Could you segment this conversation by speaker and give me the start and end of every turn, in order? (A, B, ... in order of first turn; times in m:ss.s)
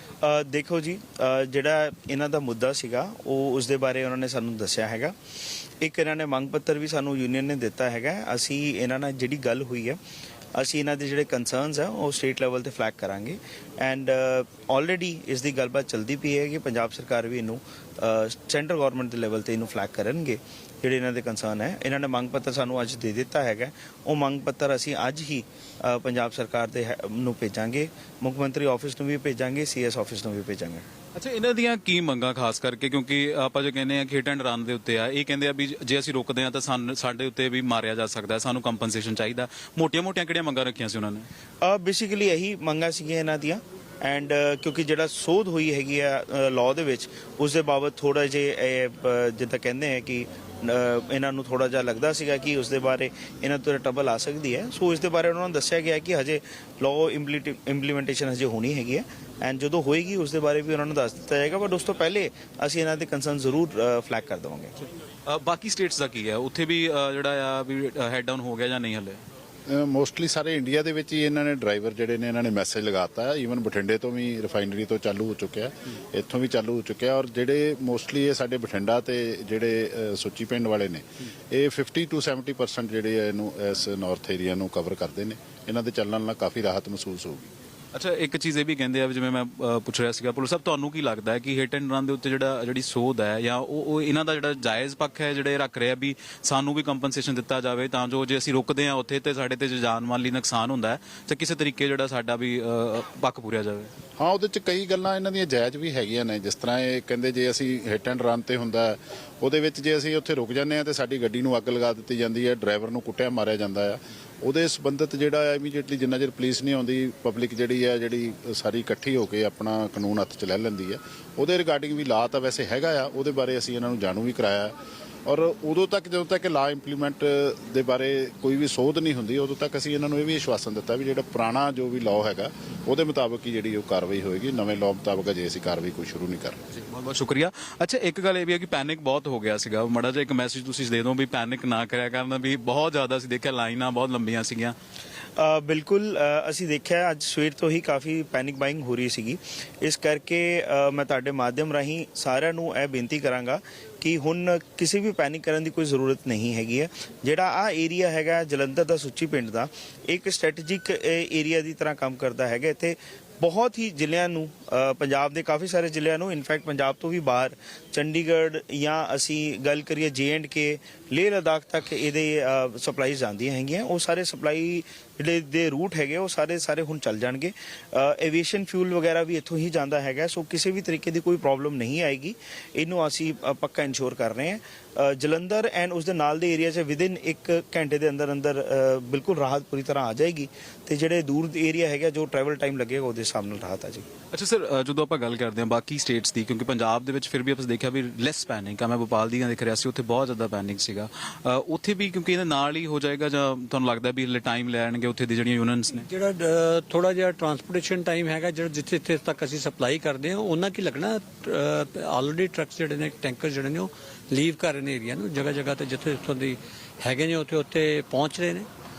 0:00.2-0:05.2 A
0:05.8-0:10.0 A
0:10.6-0:30.8 A
0:31.2-0:41.3 B
0:41.6-1:04.7 A
1:05.3-1:09.2 B
1:09.7-1:27.5 C
1:27.9-1:43.9 B
1:44.2-2:04.8 C
2:05.3-2:16.6 C
2:16.7-2:24.8 B
2:25.4-3:14.1 A
3:14.3-3:26.1 B
3:25.9-3:38.7 D